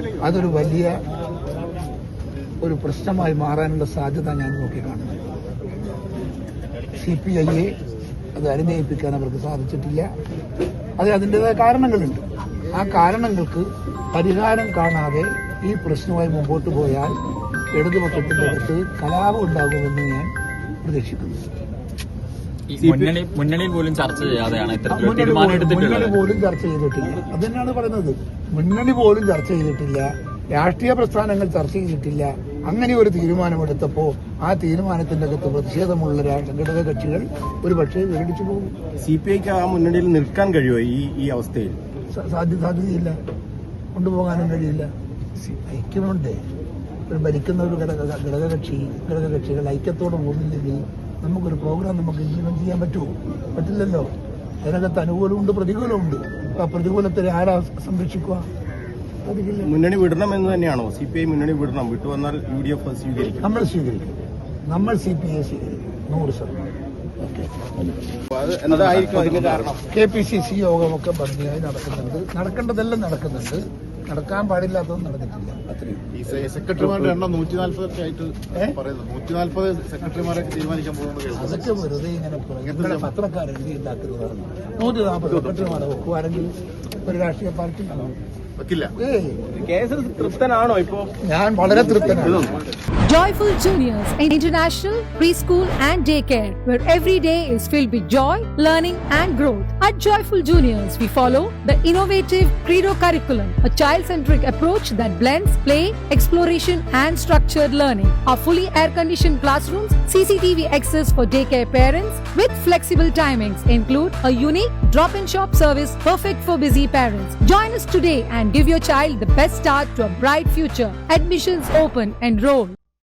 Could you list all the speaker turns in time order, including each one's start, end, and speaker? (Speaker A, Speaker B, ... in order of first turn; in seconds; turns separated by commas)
Speaker A: 0.2-1.0, Speaker A: 2.6-5.3, Speaker A: 7.0-7.7, Speaker A: 8.3-10.1, Speaker A: 11.0-17.2, Speaker A: 17.7-20.3, Speaker A: 20.8-21.4, Speaker B: 22.7-26.1, Speaker C: 22.8-23.1, Speaker A: 24.9-38.7, Speaker C: 39.0-41.8, Speaker A: 42.1-43.2, Speaker A: 43.9-44.9, Speaker A: 45.5-46.4, Speaker A: 47.1-58.5, Speaker A: 59.2-59.7, Speaker C: 59.6-63.4, Speaker A: 63.4-64.1, Speaker A: 64.7-68.0, Speaker C: 68.4-69.8, Speaker B: 68.8-69.6, Speaker A: 69.9-76.4, Speaker D: 76.2-81.7, Speaker A: 78.5-78.8, Speaker A: 81.3-88.1, Speaker D: 82.7-83.0, Speaker A: 88.9-89.4, Speaker C: 89.5-91.1, Speaker A: 91.2-92.5, Speaker C: 92.0-92.5, Speaker E: 93.0-122.8